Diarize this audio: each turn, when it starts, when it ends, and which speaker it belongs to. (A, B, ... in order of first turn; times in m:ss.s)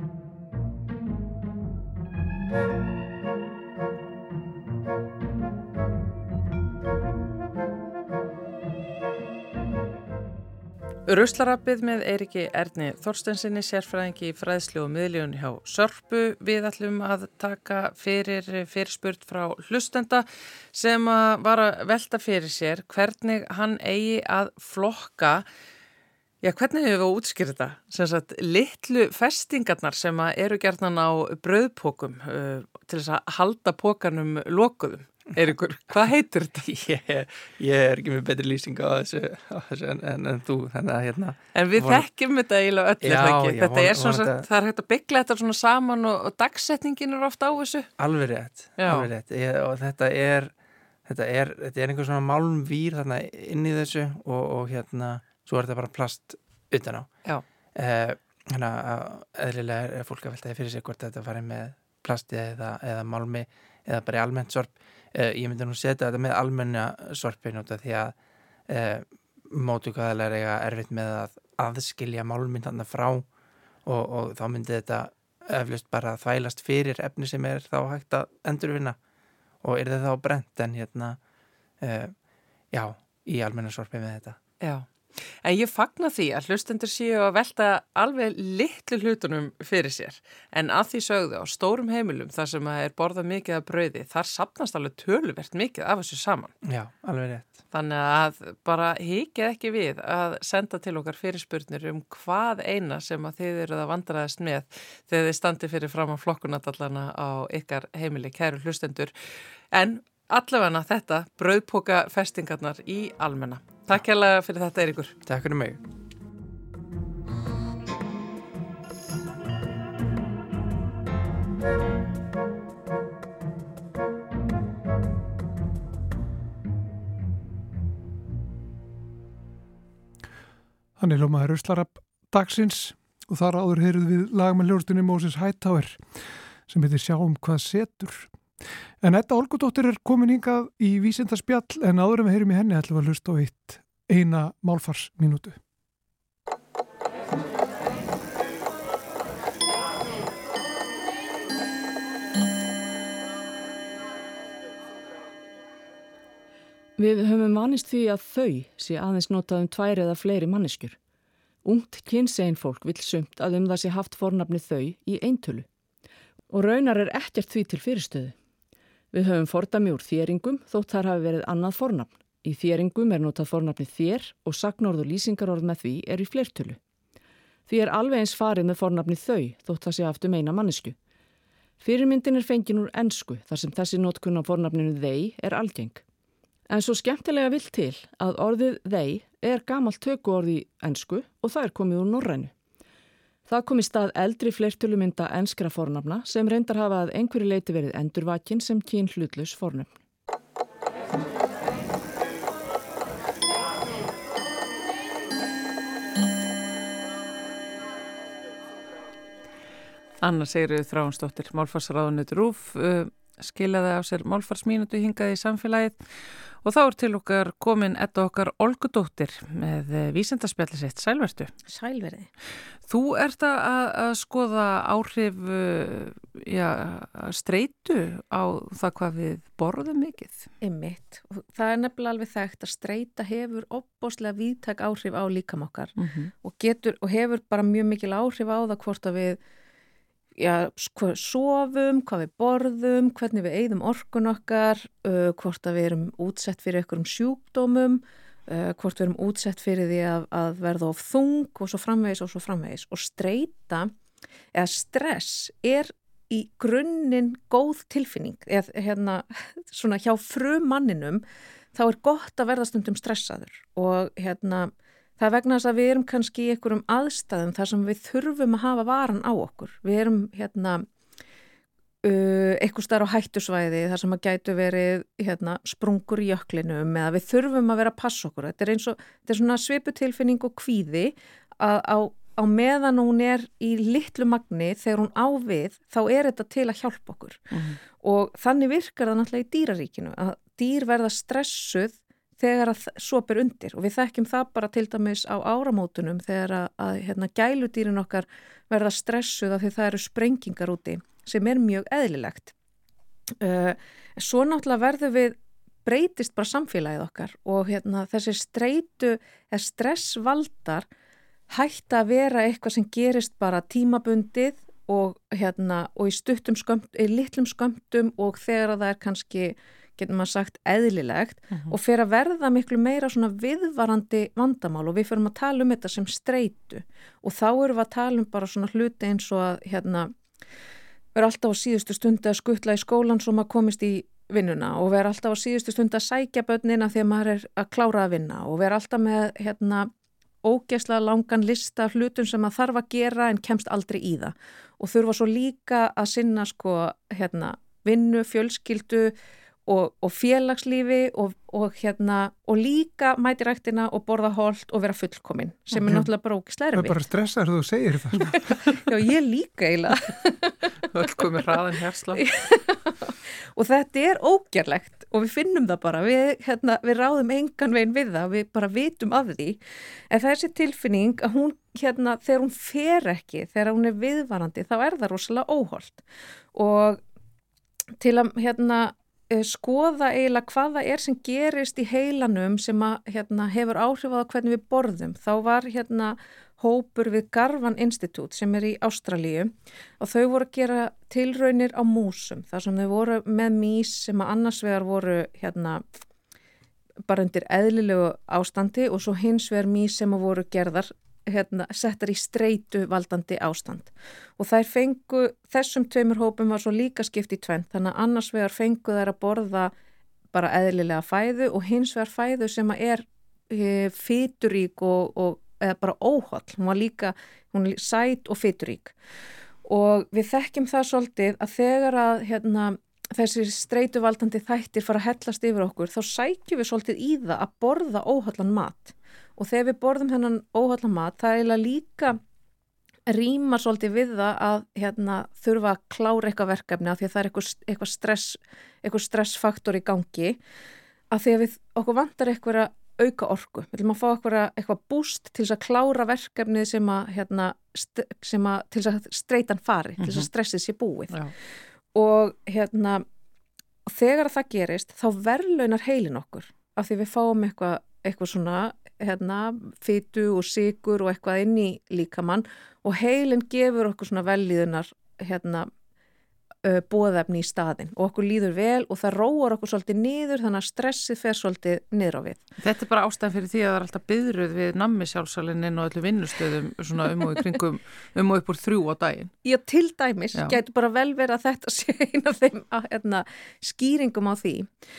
0:11.1-0:25.4 A
0:26.4-0:36.8 A
0:36.8-0:42.1 B
0:41.5-0:47.9 A
0:43.0-0:44.5 B
0:48.0-0:50.5 B
0:48.8-0:49.1 A
0:51.1-0:57.1 B
0:57.8-1:08.2 B
1:08.7-1:13.3 B
1:13.9-1:19.0 B
1:19.6-1:21.2 B
1:21.8-1:22.2 B
1:22.7-1:24.4 B
1:24.6-1:36.6 A
1:36.6-1:37.6 B
1:37.7-1:49.1 A
1:49.7-1:55.2 A
1:55.3-1:55.8 B
2:11.0-2:16.0 C
2:16.7-2:18.3 C
2:19.0-2:25.6 C
2:37.0-2:41.0 D
2:41.6-2:45.7 D
2:46.5-2:48.4 D
2:49.1-2:56.8 D
2:57.7-3:01.0 D
3:01.8-3:06.0 D
3:06.7-3:12.5 D
3:13.5-3:19.9 D
3:30.2-3:36.0 A
3:36.6-3:41.5 A
3:41.7-3:42.3 E
3:42.9-3:50.5 A
3:50.6-3:59.4 E
3:56.0-3:56.3 A
4:00.4-4:13.9 E
4:14.5-4:30.9 E
4:32.0-5:02.5 E
4:47.5-4:47.8 A
5:03.4-5:10.9 E
5:11.5-5:30.1 E
5:31.2-5:39.9 E
5:40.4-5:49.2 E
5:49.7-5:57.0 E
5:55.8-5:56.1 C
5:56.7-5:58.7 C
5:58.3-6:00.9 E
6:00.9-6:02.2 A
6:02.1-6:09.6 E
6:10.1-6:16.0 E
6:16.5-6:17.0 E
6:18.0-6:35.8 E
6:37.1-6:49.7 E
6:50.3-6:59.0 E
6:59.6-7:12.2 E
7:13.1-7:20.4 E
7:21.1-7:31.2 E
7:30.0-7:30.3 A
7:31.9-7:33.0 E
7:33.9-7:45.7 E
7:46.6-7:52.4 E
7:52.6-7:59.3 A
7:59.4-8:04.7 E